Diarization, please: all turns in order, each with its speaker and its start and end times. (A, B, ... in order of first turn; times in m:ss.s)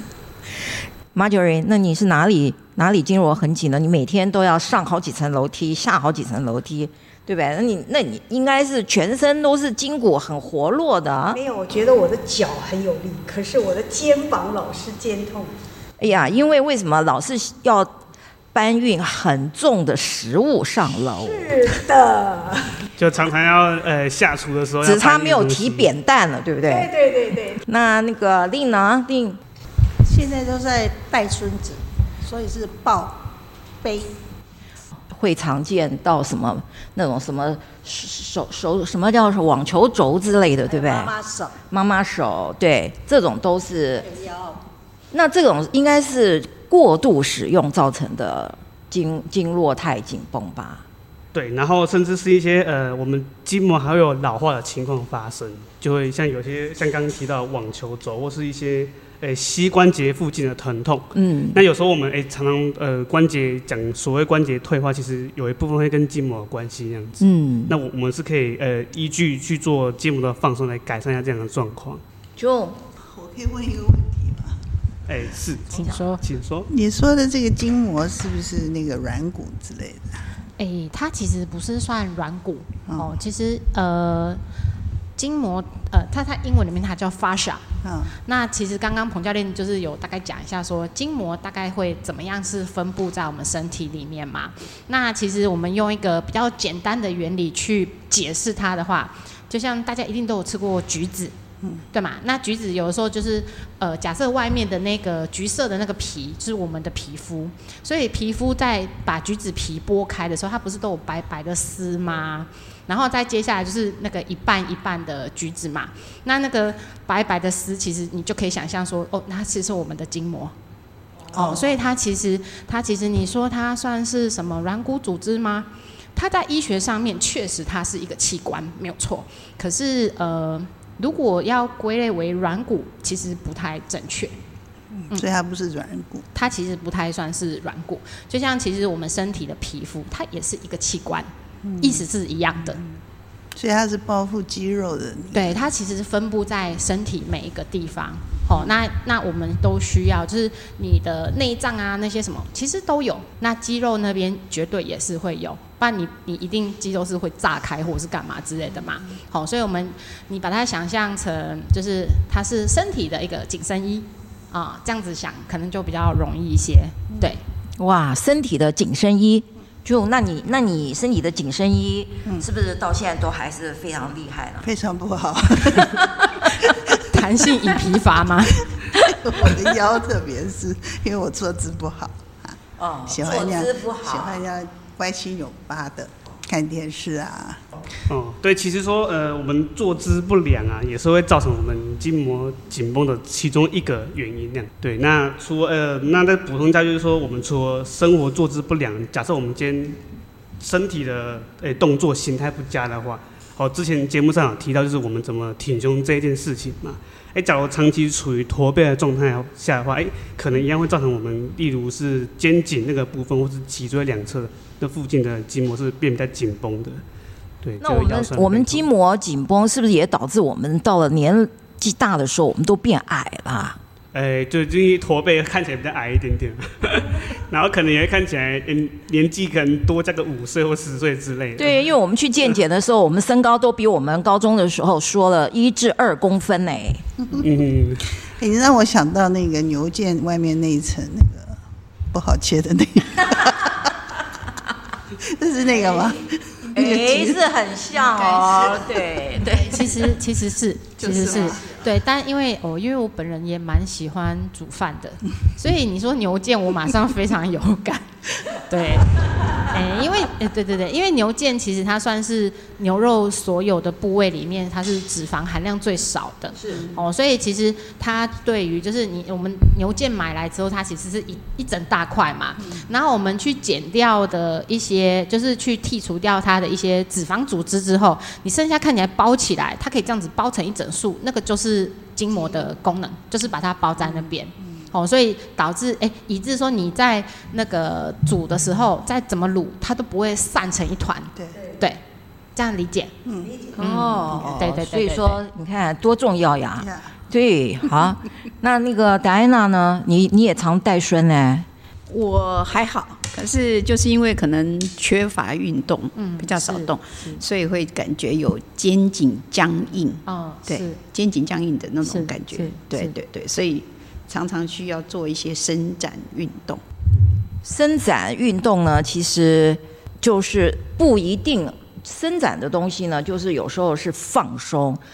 0:01.1-0:11.4 A
0:11.3-0:15.5 B
0:16.0-0:17.9 A
0:18.5-0:21.8 A
0:21.2-0:22.8 B
0:23.0-0:25.9 C
0:24.8-0:26.9 A
0:26.6-0:27.6 B
0:27.6-0:29.4 A
0:30.0-0:33.3 D
0:33.8-0:34.1 D
0:35.1-0:41.1 A
0:41.7-0:44.1 A
0:45.1-0:50.8 A
0:51.3-1:12.0 C
1:01.1-1:01.6 A
1:07.2-1:07.7 A
1:12.4-1:12.8 A
1:13.0-1:14.6 D
1:15.1-1:16.7 C
1:15.7-1:16.2 E
1:16.7-1:20.2 D
1:20.6-1:24.4 E
1:22.9-1:23.2 D
1:25.2-1:27.6 E
1:27.8-1:28.1 D
1:28.2-1:41.3 E
1:41.9-2:00.5 E
2:01.3-2:14.3 E
2:14.9-2:16.2 D
2:16.3-2:22.8 E
2:21.6-2:22.0 D
2:23.5-2:25.7 D
2:25.3-2:47.4 E
2:47.8-2:54.7 A
2:54.6-2:56.7 D
2:57.1-2:58.6 E
2:58.8-3:02.6 D
3:02.8-3:04.4 A
3:03.1-3:07.6 D
3:08.1-3:20.0 C
3:20.6-3:37.0 C
3:37.6-3:38.8 C
3:37.8-3:43.8 A
3:44.1-3:51.8 C
3:51.6-3:57.0 A
3:57.3-3:58.1 C
3:58.4-4:01.6 D
4:02.1-4:03.9 D
4:05.3-4:07.4 D
4:06.7-4:10.1 A
4:09.4-4:52.0 E
4:11.0-4:11.5 D
4:52.5-4:53.1 E
4:53.2-4:53.7 D
4:53.8-5:01.7 A
4:53.8-4:55.4 E
4:56.8-4:57.1 D
5:02.1-5:16.8 F
5:06.1-5:07.4 E
5:10.2-5:11.0 E
5:12.0-5:13.1 E
5:17.6-5:25.0 A